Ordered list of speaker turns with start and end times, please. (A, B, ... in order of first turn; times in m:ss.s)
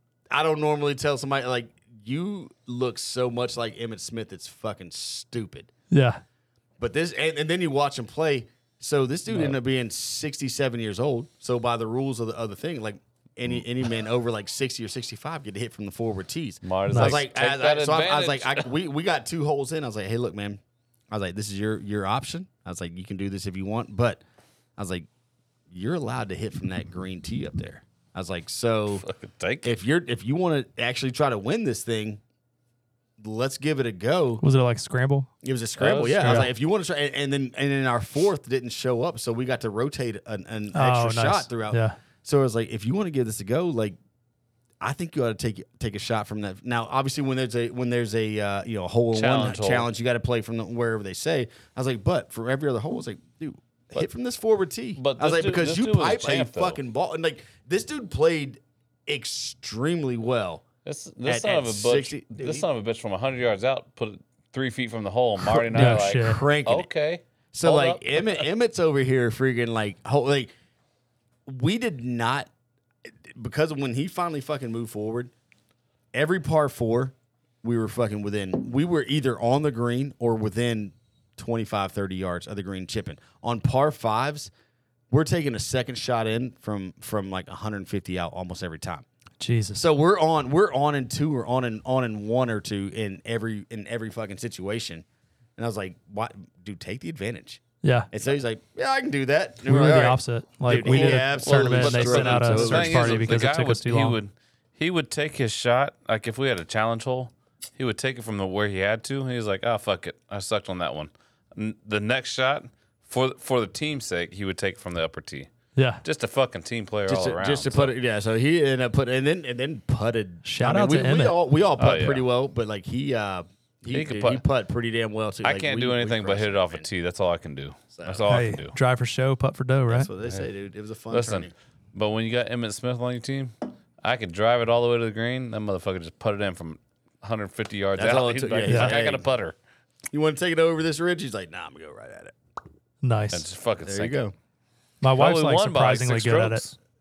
0:00.3-0:05.7 A
0:05.9-0:06.2 B
0:06.8-0:24.2 A
0:16.6-0:18.6 C
0:16.9-0:17.2 B
0:24.8-0:25.1 A
0:25.7-0:29.0 A
0:29.0-0:29.7 C
0:29.6-0:32.2 A
0:33.2-0:34.4 A
0:34.4-0:35.3 B
0:35.4-0:44.0 A
0:35.8-0:36.5 C
0:36.2-0:36.5 B
0:40.7-0:42.0 B
0:44.8-1:00.6 A
0:49.1-0:49.9 C
0:55.0-0:56.8 C
1:00.8-1:08.4 C
1:01.2-1:02.7 A
1:05.4-1:06.4 B
1:05.7-1:06.9 A
1:07.5-1:10.5 A
1:11.5-1:12.5 A
1:13.1-1:15.3 A
1:16.1-1:24.5 A
1:25.1-1:29.0 A
1:29.4-1:29.8 B
1:29.8-1:35.0 A
1:35.6-1:43.4 A
1:37.8-1:38.1 B
1:39.6-1:44.2 B
1:40.7-1:55.5 C
1:55.8-1:56.0 B
1:56.0-1:57.9 C
1:57.1-2:06.9 A
2:00.4-2:01.4 B
2:01.8-2:02.2 C
2:03.9-2:04.4 C
2:05.4-2:08.8 C
2:07.9-2:08.3 A
2:08.3-2:10.1 B
2:09.9-2:11.5 A
2:11.1-2:19.6 C
2:18.0-2:19.2 A
2:18.6-2:19.0 B
2:20.1-2:22.4 A
2:23.0-2:23.4 B
2:23.3-2:24.3 C
2:23.8-2:24.3 A
2:25.0-2:26.6 B
2:25.2-2:26.8 C